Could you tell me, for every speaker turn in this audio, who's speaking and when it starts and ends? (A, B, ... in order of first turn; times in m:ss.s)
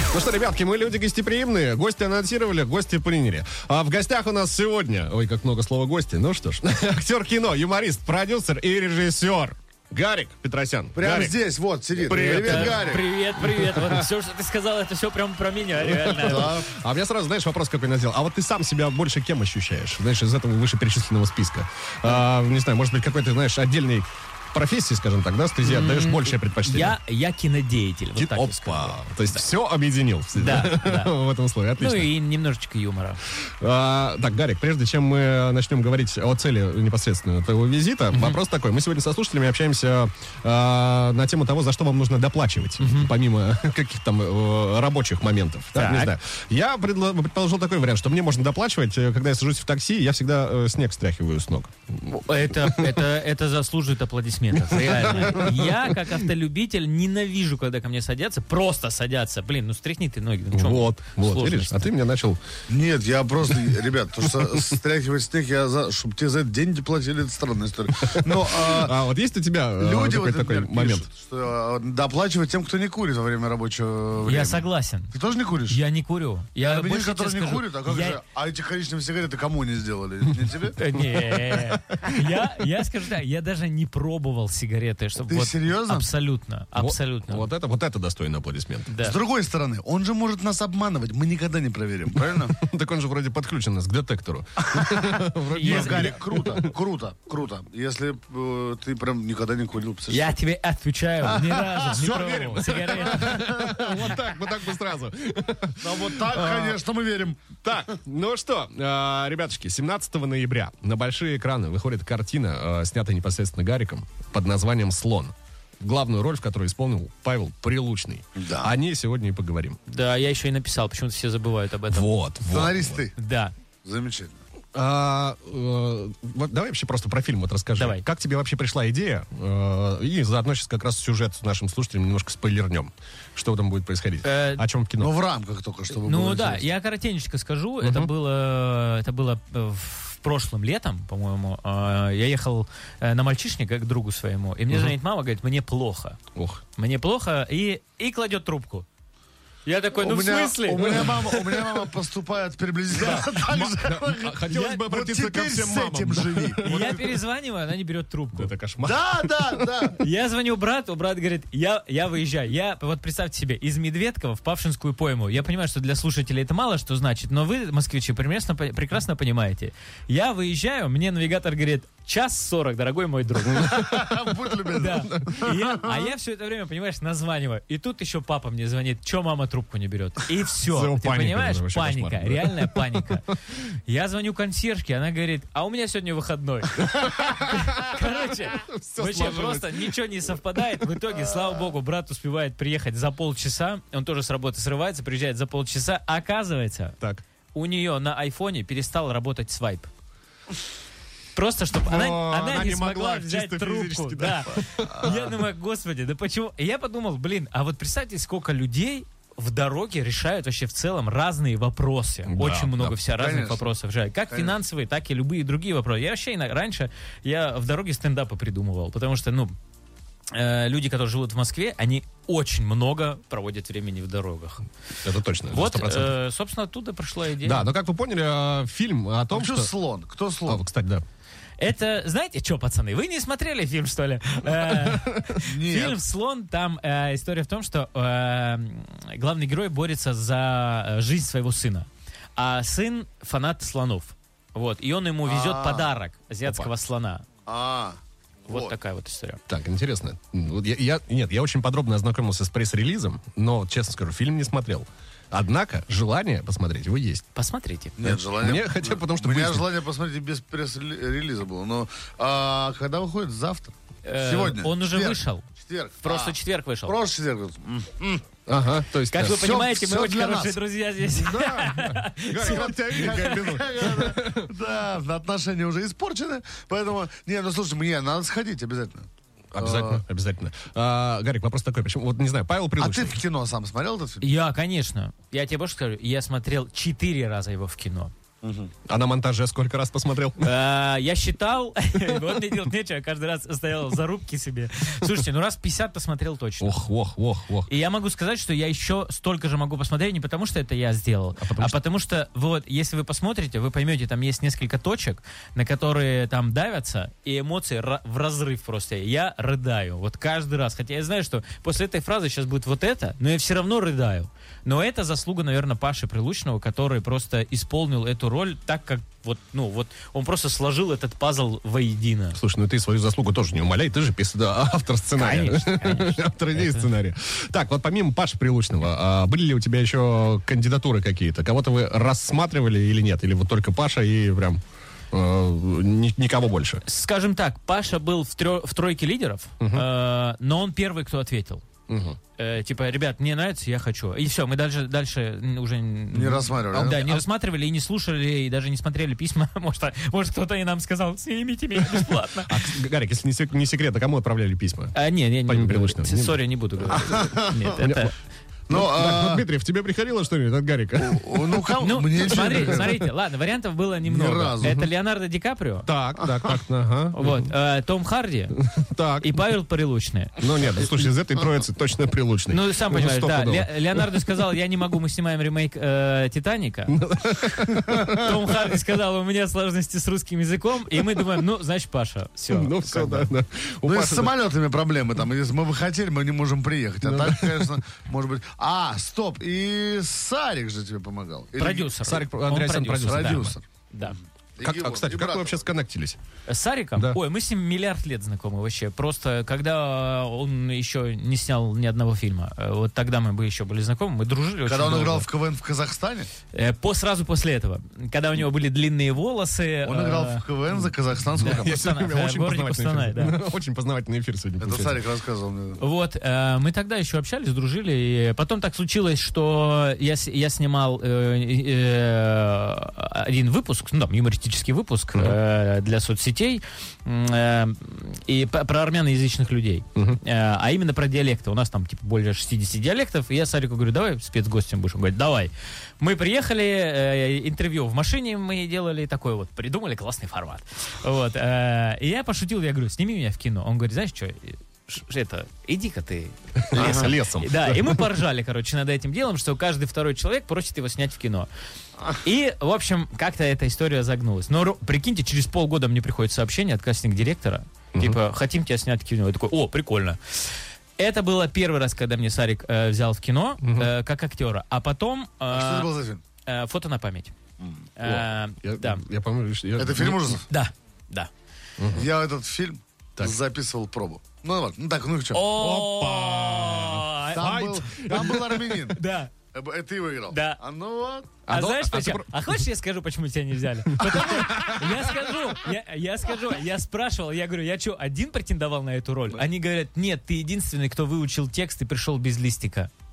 0:00.1-0:11.4 A
0:11.0-0:13.1 B
0:12.0-0:12.8 A
0:12.1-0:16.6 C
0:13.4-0:13.6 A
0:15.8-0:27.0 A
0:16.2-0:16.6 B
0:25.6-0:29.4 C
0:28.2-0:32.1 A
0:30.4-0:31.2 C
0:31.8-0:33.2 C
0:33.6-0:53.0 A
0:38.1-0:38.4 C
0:42.8-0:43.1 C
0:45.7-0:46.1 C
0:52.1-1:01.9 C
0:54.5-0:56.2 A
1:00.5-1:02.4 A
1:02.7-1:09.0 B
1:08.0-1:11.1 A
1:09.8-1:15.8 B
1:14.2-1:15.1 C
1:15.7-1:18.2 C
1:16.6-1:20.8 B
1:20.8-1:27.5 C
1:21.0-1:22.2 A
1:25.2-1:26.1 B
1:26.8-1:28.9 A
1:28.9-1:29.2 C
1:29.0-1:32.6 B
1:32.4-1:36.7 A
1:34.8-1:40.3 B
1:35.5-1:36.2 C
1:40.1-1:43.6 C
1:41.2-1:42.1 B
1:41.8-1:46.8 A
1:43.2-1:44.0 B
1:45.8-1:47.6 B
1:47.6-1:59.8 A
1:58.4-1:58.7 B
1:59.9-2:02.1 C
2:01.9-2:03.0 A
2:02.5-2:03.1 B
2:03.2-2:03.5 C
2:03.8-2:04.4 B
2:04.8-2:15.1 A
2:07.8-2:08.0 C
2:14.2-2:14.6 C
2:15.0-2:16.6 B
2:16.0-2:26.2 C
2:17.8-2:18.1 A
2:26.4-2:26.6 A
2:26.8-2:28.9 C
2:29.7-2:31.8 C
2:30.0-2:36.7 B
2:32.9-2:37.2 A
2:34.5-2:34.8 C
2:36.6-2:38.5 C
2:38.3-2:39.6 A
2:38.8-2:40.0 B
2:40.0-2:53.7 C
2:53.5-2:56.0 B
2:54.7-3:17.0 C
3:00.7-3:03.1 A
3:06.9-3:10.0 A
3:10.6-3:10.9 A
3:17.5-3:19.9 C
3:21.3-3:39.6 C
3:21.8-3:25.1 A
3:32.3-3:33.0 A
3:33.1-3:33.7 B
3:40.3-3:44.6 C
3:45.0-3:46.2 A
3:45.5-3:47.7 C
3:47.4-3:49.7 A
3:49.3-3:50.6 B
3:50.4-3:51.0 A
3:51.6-4:07.2 C
3:54.5-3:55.3 A
3:55.4-3:56.0 B
4:05.2-4:05.9 B
4:06.4-4:06.7 A
4:07.5-4:08.8 B
4:08.5-4:09.4 C
4:09.5-4:17.2 A
4:17.3-4:18.0 C
4:18.0-4:28.4 B
4:18.0-4:19.7 A
4:24.0-4:25.5 C
4:26.0-4:27.0 C
4:28.5-4:29.5 A
4:29.1-4:33.3 C
4:29.2-4:30.6 B
4:31.1-4:34.4 A
4:32.4-4:39.1 B
4:39.5-4:43.2 A
4:39.6-4:40.0 B
4:42.8-4:44.3 B
4:44.2-4:48.1 C
4:48.4-4:48.7 B
4:48.8-4:50.5 A
4:50.4-4:56.8 C
4:56.6-4:57.7 A
4:57.7-5:22.4 C
5:01.4-5:01.8 A
5:22.4-5:36.8 A
5:25.2-5:26.9 C
5:36.8-5:41.6 C
5:39.6-5:39.9 A
5:41.9-5:42.2 A
5:42.4-5:52.6 C
5:46.1-5:47.2 B
5:51.8-5:58.1 A
5:54.9-5:58.1 C
5:57.0-5:57.6 B
5:58.7-5:59.4 B
5:58.7-6:01.7 A
6:01.0-6:03.1 B
6:01.8-6:05.9 C
6:04.0-6:04.8 B
6:04.6-6:04.9 A
6:05.8-6:07.5 A
6:07.1-6:08.6 C
6:08.6-6:09.6 A
6:09.2-6:10.4 C
6:10.4-6:14.4 A
6:12.5-6:17.0 C
6:16.9-6:18.4 A
6:18.0-6:23.3 C
6:22.5-6:24.3 A
6:23.9-6:31.9 B
6:27.0-6:27.7 A
6:31.6-6:34.2 C
6:32.0-6:33.6 A
6:33.1-6:33.7 B
6:34.6-6:35.7 B
6:34.6-6:36.2 A
6:36.5-6:45.3 C
6:44.7-6:46.3 B
6:46.5-6:50.4 C
6:49.8-6:51.7 B
6:51.4-6:55.0 A
6:51.4-6:53.4 C
6:54.6-6:55.8 B
6:55.8-7:31.5 C
7:26.7-7:28.0 A
7:26.8-7:27.1 B
7:32.1-7:40.4 C
7:37.9-7:38.2 A
7:41.0-7:45.9 C
7:43.6-7:43.9 A
7:45.5-7:46.2 B
7:46.4-7:47.3 C
7:47.6-7:47.8 B
7:48.0-7:49.0 C
7:48.0-7:50.4 A
7:49.8-7:50.4 B
7:50.5-7:51.3 C
7:51.8-7:52.1 A
7:51.9-7:55.4 B
7:55.3-7:57.6 C
7:55.6-7:59.0 A
7:57.3-7:59.0 B
7:58.9-7:59.3 C
7:59.5-8:01.4 B
8:00.3-8:00.6 C
8:01.5-8:02.6 A
8:01.5-8:12.9 C
8:03.9-8:05.1 A